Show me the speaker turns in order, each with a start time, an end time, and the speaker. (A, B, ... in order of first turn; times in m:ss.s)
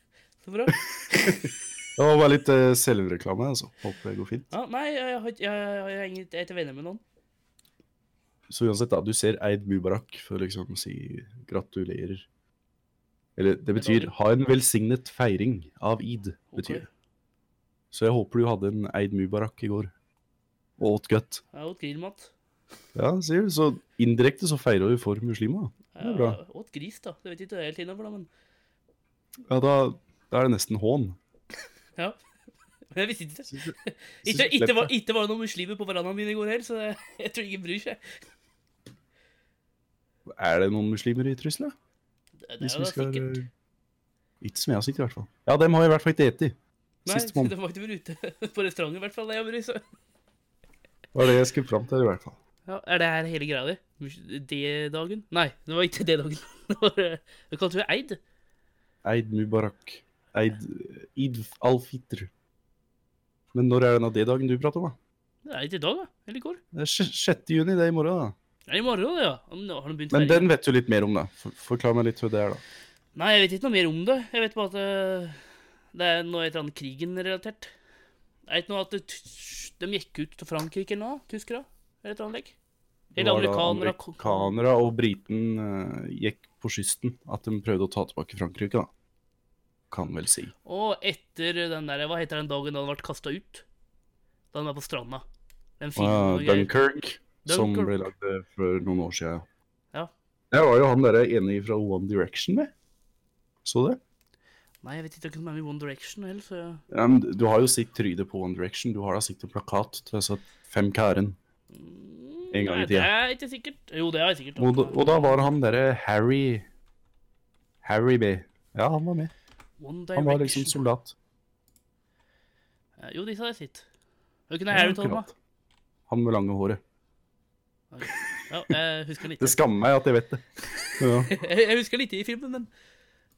0:00.4-0:01.3 A
0:00.7-0:04.5 B
0:04.5-0:07.0 A
0:08.5-0:12.3 B
0:13.4-0:16.9 B
0:13.8-0:14.1 A
0:16.5-0:16.9 A
0:17.9-0:19.9 B
0:20.8-0:21.4 B
0:21.5-0:22.3 A
0:23.0-0:26.4 B
0:26.0-0:28.3 A
0:29.5-0:31.2 B
0:32.9-0:38.0 A
0:34.2-0:34.9 B
0:40.3-0:41.7 B
0:42.5-0:43.4 A
0:42.6-0:43.5 B
0:44.4-0:47.5 B
0:47.1-0:49.8 A
0:51.1-0:52.4 B
0:52.7-0:58.2 A
0:59.0-1:02.3 B
1:03.5-1:05.0 B
1:05.4-1:06.6 A
1:06.7-1:08.4 B
1:08.7-1:10.5 A
1:10.1-1:12.6 B
1:13.2-1:15.4 A
1:15.9-1:17.7 A
1:18.5-1:22.5 A
1:23.1-1:28.9 B
1:23.2-1:24.5 A
1:29.9-1:30.5 B
1:30.6-1:33.6 A
1:34.5-1:35.2 A
1:35.8-1:36.7 A
1:36.0-1:39.4 B
1:37.4-1:38.0 A
1:40.5-1:42.7 B
1:43.6-1:44.0 B
1:44.8-1:46.8 A
1:46.9-1:51.4 B
1:51.7-1:55.5 A
1:52.5-1:53.1 B
1:54.6-1:56.7 B
1:57.8-1:59.3 B
1:59.8-2:00.8 A
2:00.2-2:01.2 B
2:03.0-2:03.9 A
2:04.5-2:05.3 A
2:04.7-2:05.3 B
2:06.1-2:06.8 B
2:07.9-2:09.6 A
2:09.4-2:10.4 B
2:11.0-2:11.3 B
2:11.3-2:12.7 A